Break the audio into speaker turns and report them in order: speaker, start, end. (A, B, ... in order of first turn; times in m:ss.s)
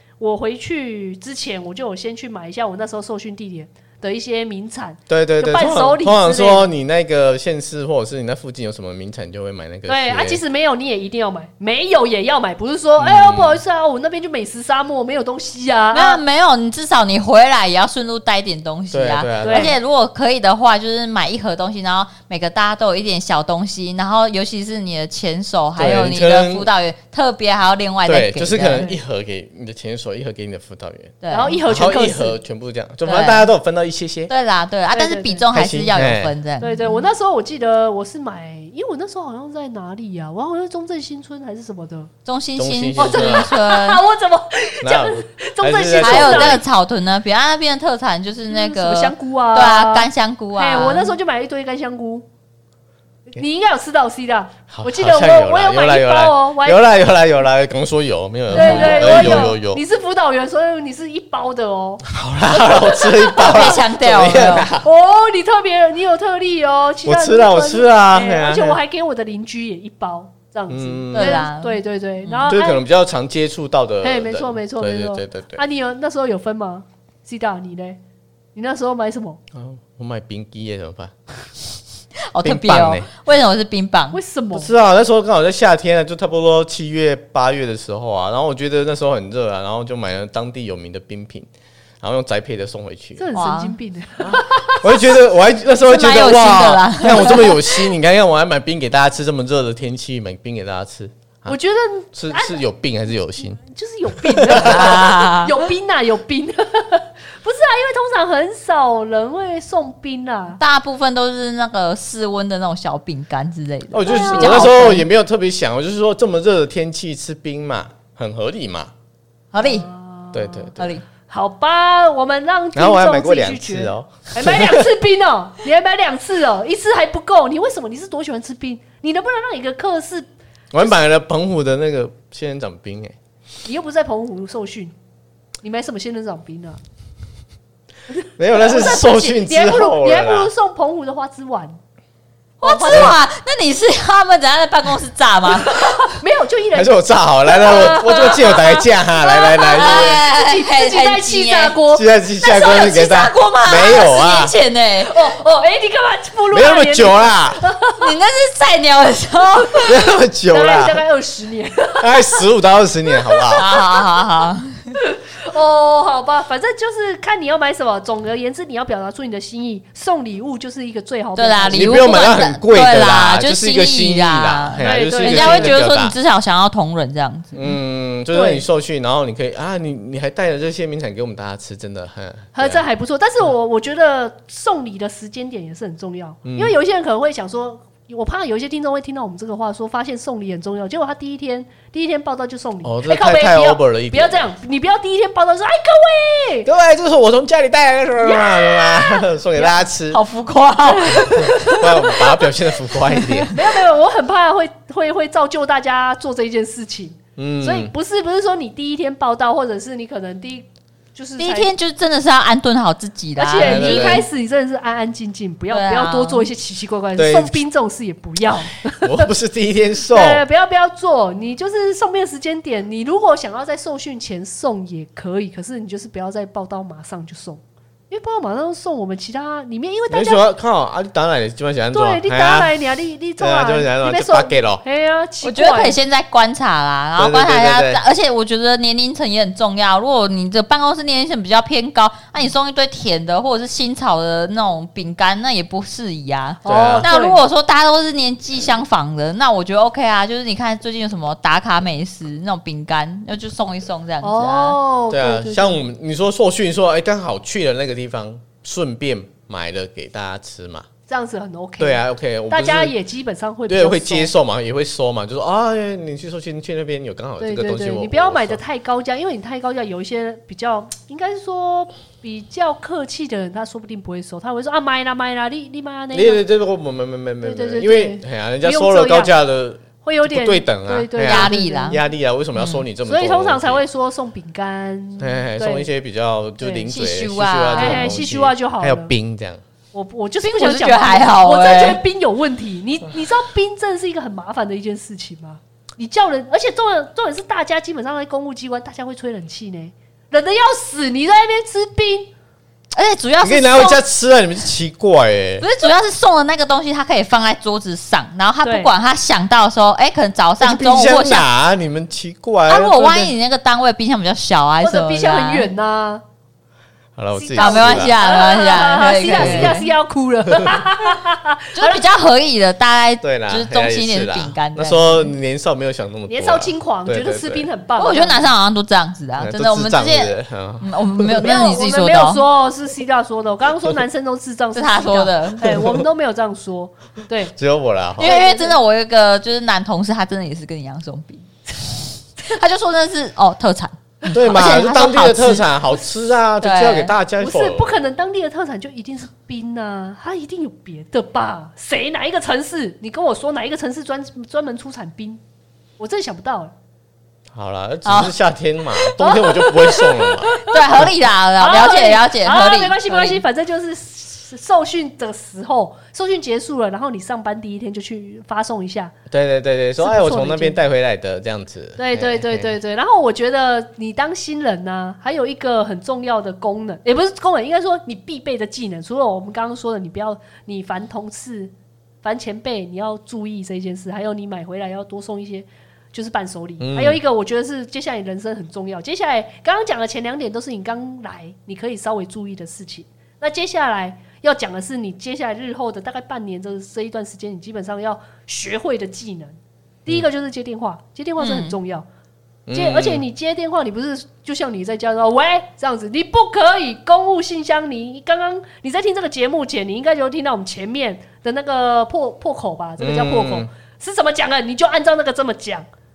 0:00.2-0:06.7 A
0:05.1-0:10.4 B
0:09.9-0:16.2 A
0:13.0-0:13.6 B
0:15.9-0:28.9 C
0:18.9-0:19.8 B
0:19.4-0:19.7 A
0:25.8-0:26.7 B
0:28.1-0:34.3 B
0:28.7-0:29.0 A
0:31.2-0:31.6 C
0:31.3-0:32.4 A
0:33.0-0:33.5 C
0:34.3-0:37.1 C
0:34.9-0:35.4 A
0:35.5-0:36.3 B
0:36.6-0:42.1 A
0:42.3-0:44.0 C
0:42.6-0:43.5 B
0:43.0-0:46.6 A
0:44.8-0:46.6 B
0:46.0-0:51.2 C
0:48.5-0:52.2 A
0:53.3-0:56.8 A
0:54.7-0:59.8 B
0:58.5-1:03.8 A
0:58.5-0:59.5 C
1:02.1-1:04.9 B
1:03.4-1:04.7 C
1:04.8-1:12.8 A
1:07.0-1:08.8 B
1:10.7-1:11.4 B
1:11.1-1:12.5 C
1:12.5-1:15.6 B
1:14.0-1:18.0 A
1:18.6-1:19.4 A
1:19.5-1:21.2 B
1:22.3-1:24.2 C
1:22.4-1:23.1 B
1:24.1-1:24.7 A
1:24.5-1:31.5 B
1:32.0-1:33.2 B
1:33.2-1:35.1 A
1:33.3-1:33.8 C
1:34.2-1:41.6 B
1:35.8-1:37.8 C
1:41.5-1:42.6 A
1:42.1-1:43.6 B
1:43.6-1:50.6 A
1:44.2-1:45.0 B
1:44.5-1:45.6 C
1:50.6-1:55.0 C
1:53.9-1:58.9 B
1:54.0-1:54.8 A
1:59.5-1:59.9 C
1:59.6-2:00.7 A
2:00.3-2:00.9 B
2:00.8-2:01.0 C
2:01.3-2:10.3 A
2:02.8-2:04.9 B
2:10.7-2:13.2 B
2:13.6-2:14.9 A
2:15.6-2:16.8 A
2:18.1-2:21.8 A
2:18.4-2:20.5 B
2:22.6-2:23.2 A
2:22.6-2:26.2 C
2:22.9-2:23.2 B
2:25.7-2:32.1 A
2:26.8-2:30.2 B
2:29.8-2:31.8 C
2:31.9-2:34.5 B
2:32.4-2:35.1 C
2:35.0-2:38.1 A
2:36.5-2:37.6 B
2:38.0-2:40.0 C
2:39.9-2:41.0 B
2:40.5-2:42.4 A
2:42.0-2:43.6 B
2:43.1-2:44.0 A
2:43.5-2:45.0 C
2:45.0-2:52.1 A
2:51.4-2:57.6 C
2:51.7-2:56.2 B
2:54.8-2:55.8 A
2:57.5-3:02.8 B
2:58.3-2:58.6 A
3:02.5-3:16.7 A
3:06.4-3:06.8 B
3:12.8-3:14.5 B
3:16.7-3:20.2 B
3:18.2-3:19.8 A
3:20.1-3:21.9 C
3:20.8-3:22.2 A
3:21.4-3:23.5 B
3:23.1-3:23.5 C
3:23.5-3:31.7 A
3:27.4-3:27.9 B
3:31.4-3:34.2 C
3:33.4-3:39.3 A
3:33.6-3:34.3 B
3:35.7-3:36.5 C
3:37.2-3:37.6 B
3:39.0-3:40.4 B
3:40.1-3:50.4 A
3:50.1-3:52.7 B
3:51.9-3:56.0 A
3:53.4-3:54.8 B
3:55.4-4:14.8 C
3:57.2-3:58.0 B
4:06.6-4:07.4 A
4:06.7-4:07.1 B
4:14.2-4:15.8 A
4:15.1-4:20.9 B
4:21.1-4:24.3 A
4:21.8-4:23.0 B
4:23.7-4:28.6 B
4:27.4-4:36.4 A
4:36.1-4:43.8 B
4:37.4-4:39.3 A
4:40.0-4:42.0 A
4:41.2-4:42.0 C
4:42.6-4:42.8 C
4:43.1-4:45.9 A
4:45.2-4:49.6 B
4:46.6-4:46.9 A
4:46.9-4:48.1 C
4:47.8-4:49.1 A
4:49.9-5:02.3 A
4:50.4-4:52.0 C
5:02.9-5:04.0 C
5:03.4-5:05.7 B
5:05.6-5:11.5 C
5:08.6-5:08.9 A
5:10.6-5:13.3 B
5:12.7-5:15.7 C
5:14.8-5:16.2 A
5:17.2-5:18.2 B
5:17.4-5:22.0 A
5:17.6-5:19.9 C
5:19.2-5:19.8 B
5:21.8-5:25.3 C
5:23.2-5:27.7 B
5:26.3-5:28.5 A
5:28.0-5:32.5 C
5:29.4-5:31.5 B
5:31.4-5:37.5 A
5:34.7-5:35.8 C
5:35.8-5:36.0 B
5:37.6-5:38.4 B
5:38.2-5:38.8 A
5:38.2-5:45.7 C
5:44.3-5:48.0 B
5:46.6-5:47.1 C
5:47.4-5:55.4 A
5:56.0-5:56.7 A
5:57.5-6:01.1 B
5:58.0-5:58.3 C
5:59.2-6:01.0 A
6:00.6-6:03.4 C
6:01.6-6:09.1 A
6:09.3-6:12.7 B
6:10.0-6:10.8 A
6:12.0-6:42.1 A
6:26.8-6:27.2 B
6:41.4-6:41.8 C
6:42.7-6:43.2 B
6:42.7-6:55.9 A
6:53.0-6:53.7 B